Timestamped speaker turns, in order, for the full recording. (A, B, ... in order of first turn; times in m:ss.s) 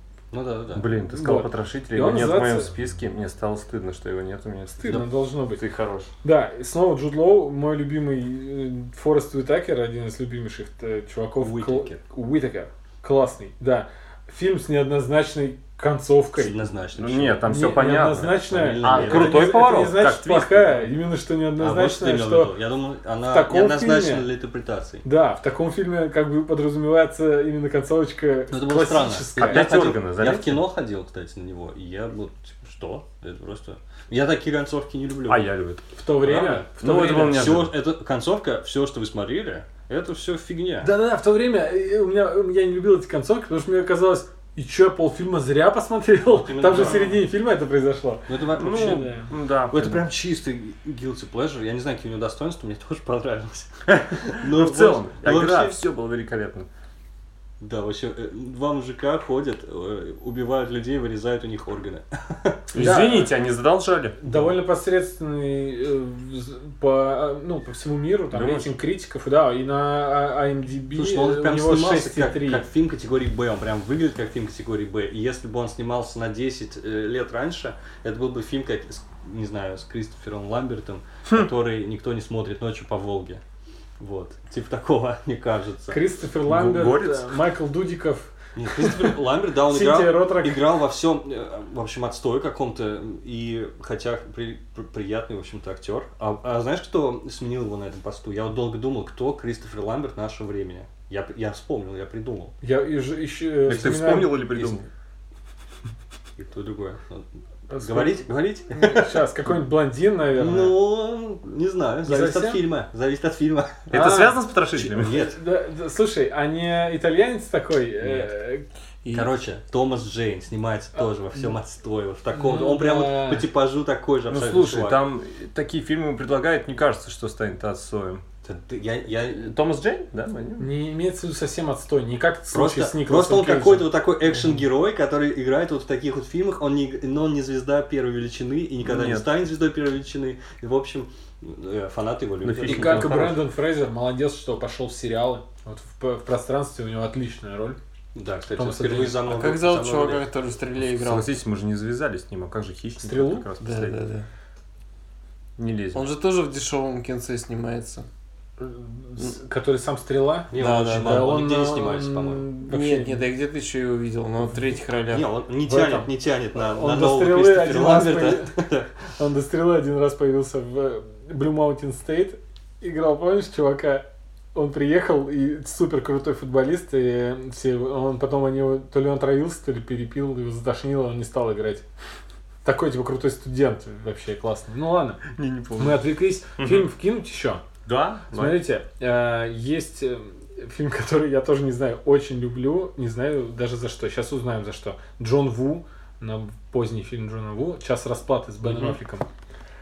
0:00.3-0:00.9 A
0:00.7-0:06.1 B
0:01.0-0:02.7 C
0:04.8-0:05.6 C
0:06.2-0:16.6 C
0:11.4-0:12.0 A
0:16.4-0:19.6 A
0:17.0-0:20.9 B
0:17.4-0:22.6 C
0:21.6-0:25.0 A
0:23.3-0:24.3 C
0:25.0-0:30.0 C
0:28.5-0:35.5 A
0:29.4-0:30.6 B
0:35.3-0:35.9 B
0:35.9-0:37.6 C
0:36.2-0:36.6 A
0:36.8-0:37.7 B
0:37.2-0:40.9 A
0:40.8-0:49.2 C
0:46.2-0:47.2 A
0:48.3-0:49.1 A
0:48.6-0:50.0 B
0:49.7-0:55.8 A
0:53.9-0:56.7 B
0:57.6-1:02.7 A
1:02.7-1:04.2 B
1:02.7-1:03.3 C
1:04.2-1:12.6 C
1:04.2-1:04.5 A
1:08.3-1:08.8 B
1:10.9-1:23.4 A
1:24.0-1:26.0 A
1:25.9-1:30.6 C
1:26.4-1:27.4 B
1:28.6-1:42.5 A
1:42.6-1:44.8 C
1:43.6-1:44.9 B
1:46.4-1:49.2 A
1:47.7-1:50.8 C
1:50.3-1:53.9 A
1:52.0-1:52.6 C
1:53.9-1:55.2 B
1:53.9-1:54.4 C
1:54.7-1:55.4 A
1:55.1-1:58.6 C
1:58.0-1:58.3 A
1:59.0-1:59.3 D
1:59.1-2:05.0 A
2:02.3-2:03.4 C
2:04.3-2:08.2 B
2:08.4-2:09.5 A
2:09.4-2:10.7 B
2:10.6-2:13.9 C
2:12.5-2:23.4 A
2:18.8-2:19.3 B
2:22.4-2:23.4 B
2:22.6-2:27.8 C
2:28.1-2:30.2 A
2:28.6-2:29.2 C
2:29.2-2:31.3 D
2:31.0-2:34.0 B
2:33.0-2:33.5 C
2:33.6-2:34.2 D
2:35.6-2:36.0 B
2:35.9-2:38.0 D
2:38.6-2:43.2 C
2:40.5-2:42.5 A
2:40.6-2:41.3 D
2:42.7-2:45.3 D
2:45.1-2:48.9 A
2:45.7-2:48.6 C
2:49.2-3:01.8 C
3:02.6-3:07.6 C
3:05.4-3:06.0 B
3:06.6-3:06.9 B
3:07.8-3:08.6 B
3:08.3-3:19.2 C
3:18.6-3:19.0 A